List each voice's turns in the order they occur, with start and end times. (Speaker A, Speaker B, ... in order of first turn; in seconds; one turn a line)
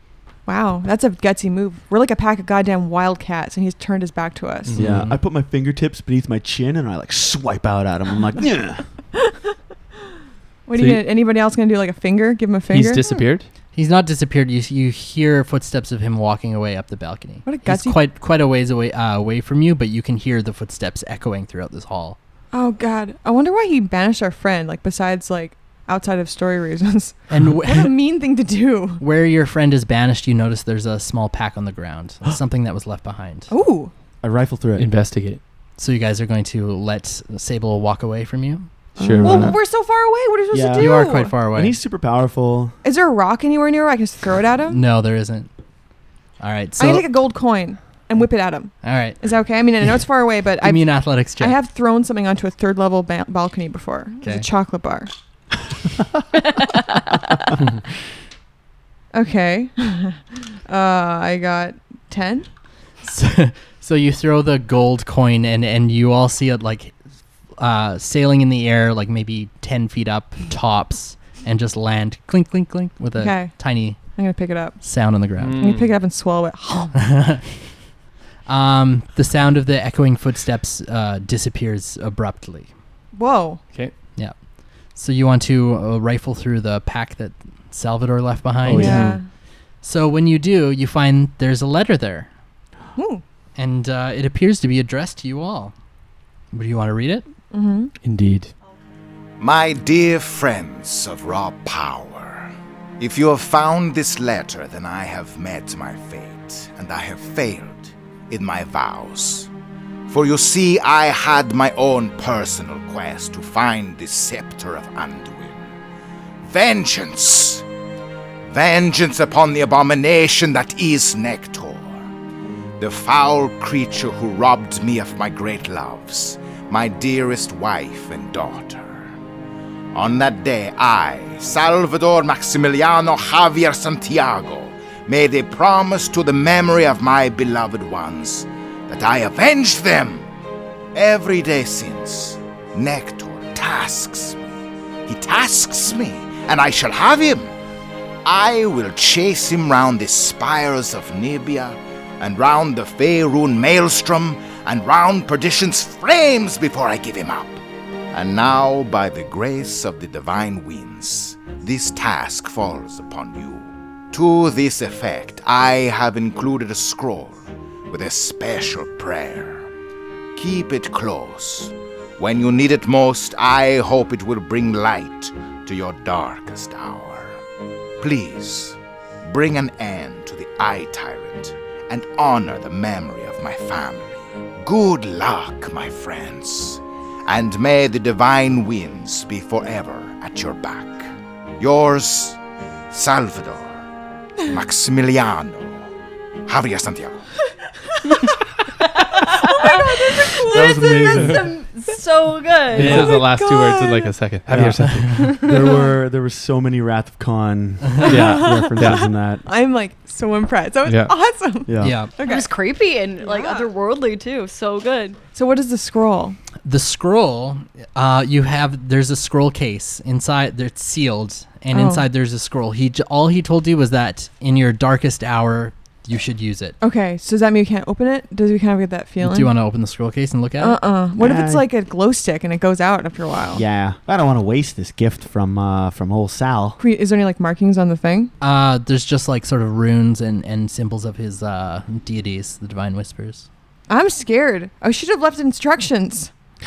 Speaker A: 0.5-4.8
Speaker B: 4.7-5.2
Speaker C: 4.8-8.9
Speaker A: 10.7-13.2
Speaker B: 10.8-11.0
Speaker B: 12.7-13.5
Speaker D: 13.7-22.2
Speaker A: 17.4-18.0
Speaker A: 22.5-29.0
Speaker D: 27.3-27.9
Speaker D: 29.0-33.5
Speaker A: 33.5-33.9
Speaker C: 34.2-34.9
Speaker B: 34.8-35.4
Speaker D: 35.8-38.9
Speaker B: 39.0-39.6
Speaker C: 39.0-39.5
Speaker A: 39.2-41.3
Speaker C: 40.5-42.8
Speaker D: 40.7-41.8
Speaker A: 42.8-44.8
Speaker D: 44.7-45.5
Speaker D: 46.4-47.1
Speaker A: 46.8-55.1
Speaker D: 48.8-49.2
Speaker D: 50.6-51.6
Speaker E: 56.6-57.2
Speaker A: 59.1-62.5
Speaker D: 63.0-67.0
Speaker D: 67.6-74.1
Speaker A: 73.2-74.8
Speaker D: 74.8-75.7
Speaker B: 75.4-75.9
Speaker A: 75.6-76.9
Speaker D: 76.9-77.5
Speaker D: 78.5-82.7
Speaker A: 83.1-83.6
Speaker D: 84.9-89.1
Speaker B: 88.6-89.2
Speaker A: 88.7-89.2
Speaker D: 89.8-92.3
Speaker A: 93.0-93.2
Speaker D: 93.5-95.7
Speaker D: 96.5-97.2
Speaker A: 97.5-97.9
Speaker B: 98.0-98.5
Speaker F: 99.4-109.5
Speaker F: 110.1-115.7
Speaker F: 116.4-117.6
Speaker F: 118.5-122.0
Speaker F: 122.8-129.1
Speaker F: 129.9-140.3
Speaker F: 140.9-144.4
Speaker F: 145.1-147.5
Speaker F: 148.2-157.6
Speaker F: 158.1-169.6
Speaker F: 170.3-177.4
Speaker F: 178.0-192.4
Speaker F: 192.9-193.8
Speaker F: 194.4-195.9
Speaker F: 196.4-197.2
Speaker E: 198.8-203.2
Speaker A: 199.1-201.3
Speaker C: 200.5-201.4
Speaker B: 202.7-205.3
Speaker A: 202.8-204.1
Speaker C: 204.5-209.4
Speaker A: 205.5-205.9
Speaker B: 208.0-209.1
Speaker A: 208.0-212.5
Speaker B: 210.8-211.1
Speaker C: 211.7-212.0
Speaker D: 211.8-212.1
Speaker E: 212.2-215.2
Speaker A: 213.2-213.7
Speaker A: 215.3-216.4
Speaker D: 216.6-226.8
Speaker A: 221.7-222.0
Speaker A: 226.8-229.5
Speaker D: 229.2-230.8
Speaker A: 230.6-233.6
Speaker C: 231.2-231.7
Speaker C: 233.5-236.8
Speaker A: 236.8-238.3
Speaker D: 238.4-243.5
Speaker A: 243.9-246.3